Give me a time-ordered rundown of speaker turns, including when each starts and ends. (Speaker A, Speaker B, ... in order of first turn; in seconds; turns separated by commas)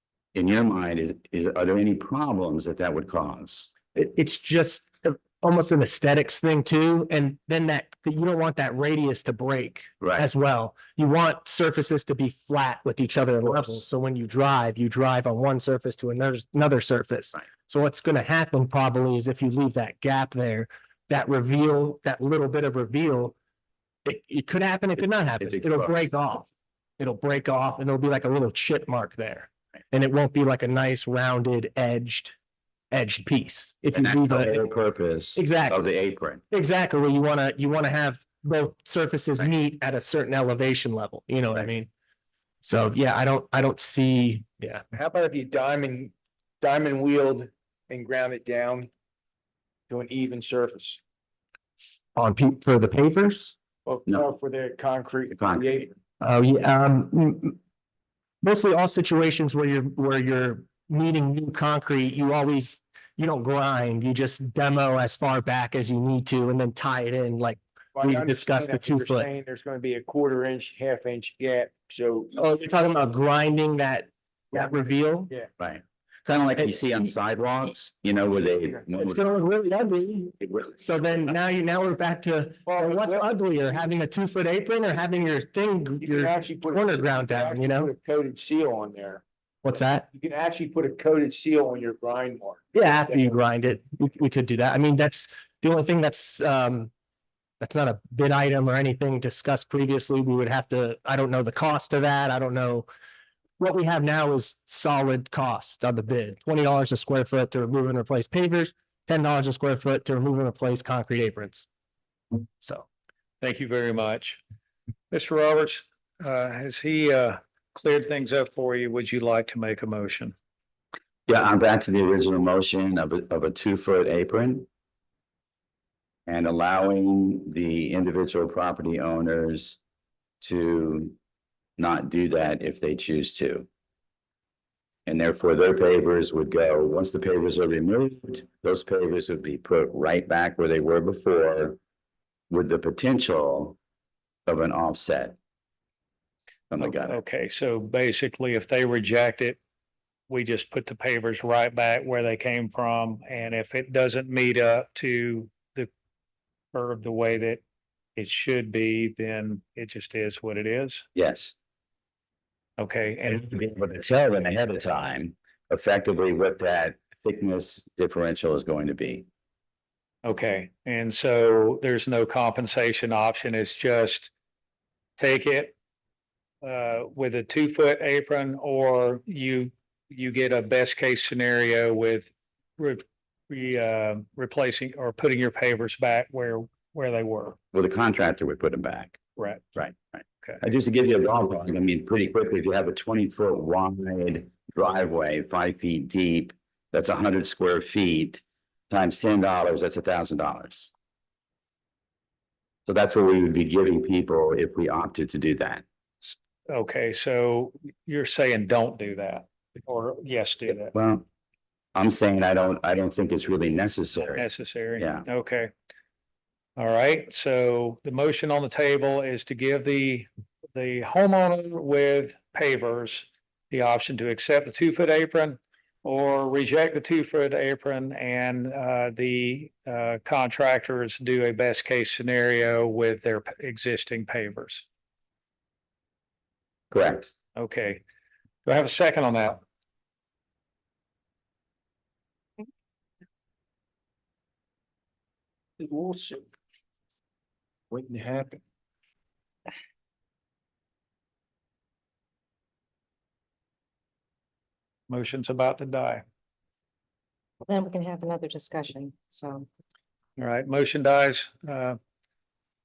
Speaker A: 0.3-3.7, Speaker B: 3.9-23.3, Speaker A: 10.0-10.3, Speaker A: 13.4-13.8, Speaker B: 24.0-32.3, Speaker A: 25.4-26.0, Speaker B: 32.9-34.6, Speaker A: 33.9-36.4, Speaker B: 35.4-35.8, Speaker B: 36.5-41.9, Speaker B: 42.6-44.8, Speaker C: 44.9-48.9, Speaker C: 49.9-51.0, Speaker B: 52.1-53.5, Speaker C: 53.9-56.0, Speaker A: 55.3-55.7, Speaker B: 56.2-57.6, Speaker B: 58.4-69.3, Speaker C: 68.0-72.4, Speaker B: 72.4-75.3, Speaker A: 75.6-79.2, Speaker B: 79.0-87.9, Speaker A: 80.4-80.7, Speaker C: 82.7-83.3, Speaker C: 86.0-89.2, Speaker B: 89.6-90.0, Speaker C: 90.1-92.6, Speaker B: 92.7-96.9, Speaker B: 97.6-102.9, Speaker B: 103.6-111.7, Speaker B: 112.6-112.8, Speaker D: 113.4-114.4, Speaker D: 115.1-120.3, Speaker A: 121.3-124.7, Speaker A: 126.3-129.8, Speaker A: 130.4-131.2, Speaker A: 131.8-133.7, Speaker A: 135.1-141.8, Speaker A: 142.5-143.8, Speaker A: 144.4-145.4, Speaker A: 146.7-147.2, Speaker D: 146.8-149.6, Speaker D: 150.3-155.9, Speaker D: 156.7-157.6, Speaker D: 158.2-161.0, Speaker A: 161.1-161.5, Speaker D: 162.8-163.5, Speaker A: 163.3-169.3, Speaker D: 170.2-174.3, Speaker D: 175.2-175.7, Speaker D: 176.6-187.6, Speaker A: 187.7-189.2, Speaker D: 189.4-189.7, Speaker A: 190.6-200.9, Speaker A: 202.9-205.8, Speaker D: 206.2-210.9, Speaker A: 210.9-211.2, Speaker A: 211.9-215.2, Speaker D: 214.3-215.7, Speaker D: 216.8-234.8, Speaker A: 236.9-237.3, Speaker D: 237.5-238.0, Speaker D: 238.6-239.6, Speaker C: 245.8-246.5, Speaker C: 247.9-248.6, Speaker D: 255.1-256.2, Speaker E: 257.6-259.7, Speaker D: 260.4-262.0